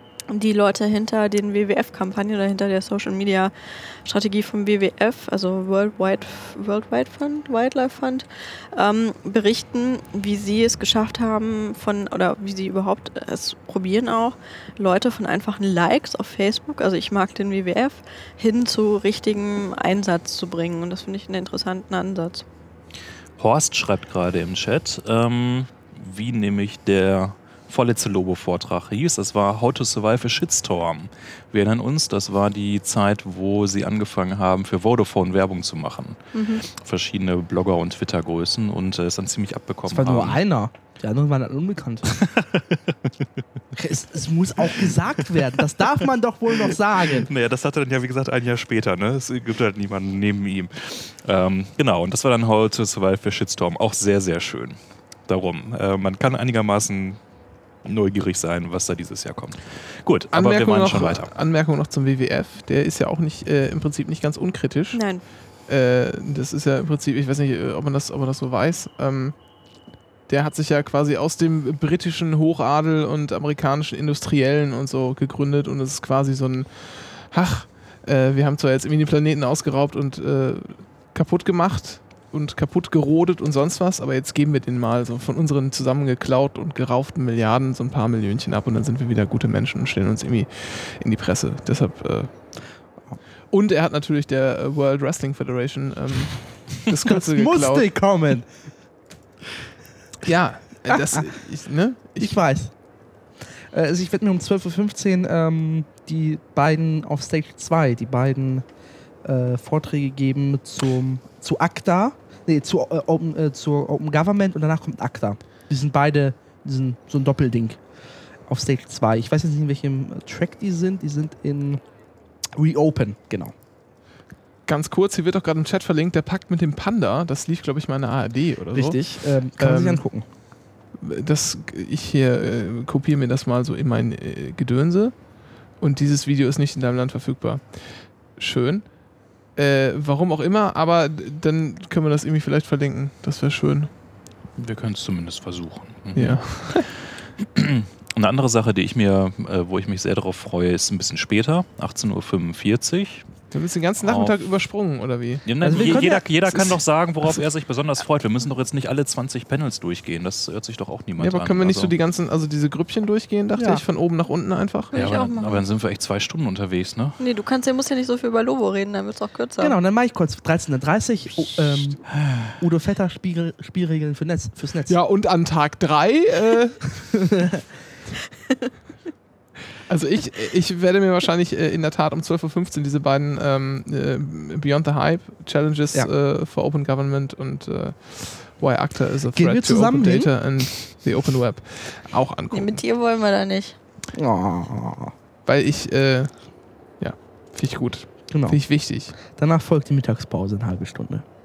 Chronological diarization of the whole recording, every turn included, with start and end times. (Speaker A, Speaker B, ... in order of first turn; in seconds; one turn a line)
Speaker A: 0.3-3.5
Speaker A: 4.0-22.4
Speaker B: 23.4-40.4
Speaker A: 36.3-36.6
Speaker C: 39.9-42.2
Speaker B: 42.1-43.0
Speaker C: 43.7-47.3
Speaker B: 47.1-57.2
Speaker B: 57.8-61.3
Speaker D: 60.3-65.0
Speaker A: 64.9-65.2
Speaker D: 65.7-69.3
Speaker D: 70.3-92.3
Speaker D: 93.5-97.9
Speaker C: 97.1-98.5
Speaker D: 100.2-102.4
Speaker C: 100.9-101.2
Speaker C: 102.2-102.7
Speaker C: 103.7-108.6
Speaker C: 109.2-117.8
Speaker C: 118.5-121.8
Speaker C: 122.5-123.5
Speaker D: 124.7-130.0
Speaker C: 128.7-130.2
Speaker D: 131.0-135.2
Speaker D: 135.8-138.9
Speaker D: 139.5-143.9
Speaker B: 144.6-153.3
Speaker D: 146.1-146.9
Speaker D: 153.5-157.4
Speaker B: 154.0-154.4
Speaker B: 155.4-161.9
Speaker C: 155.6-156.2
Speaker D: 161.2-164.9
Speaker C: 163.5-163.8
Speaker A: 164.9-165.6
Speaker B: 164.9-167.2
Speaker A: 167.2-169.8
Speaker C: 169.6-172.0
Speaker C: 172.6-175.0
Speaker D: 174.9-177.0
Speaker C: 177.2-177.6
Speaker D: 179.9-192.8
Speaker C: 189.3-190.3
Speaker A: 192.5-193.8
Speaker C: 194.1-195.1
Speaker D: 195.4-196.3
Speaker D: 197.0-199.1
Speaker C: 198.3-198.6
Speaker C: 199.2-201.2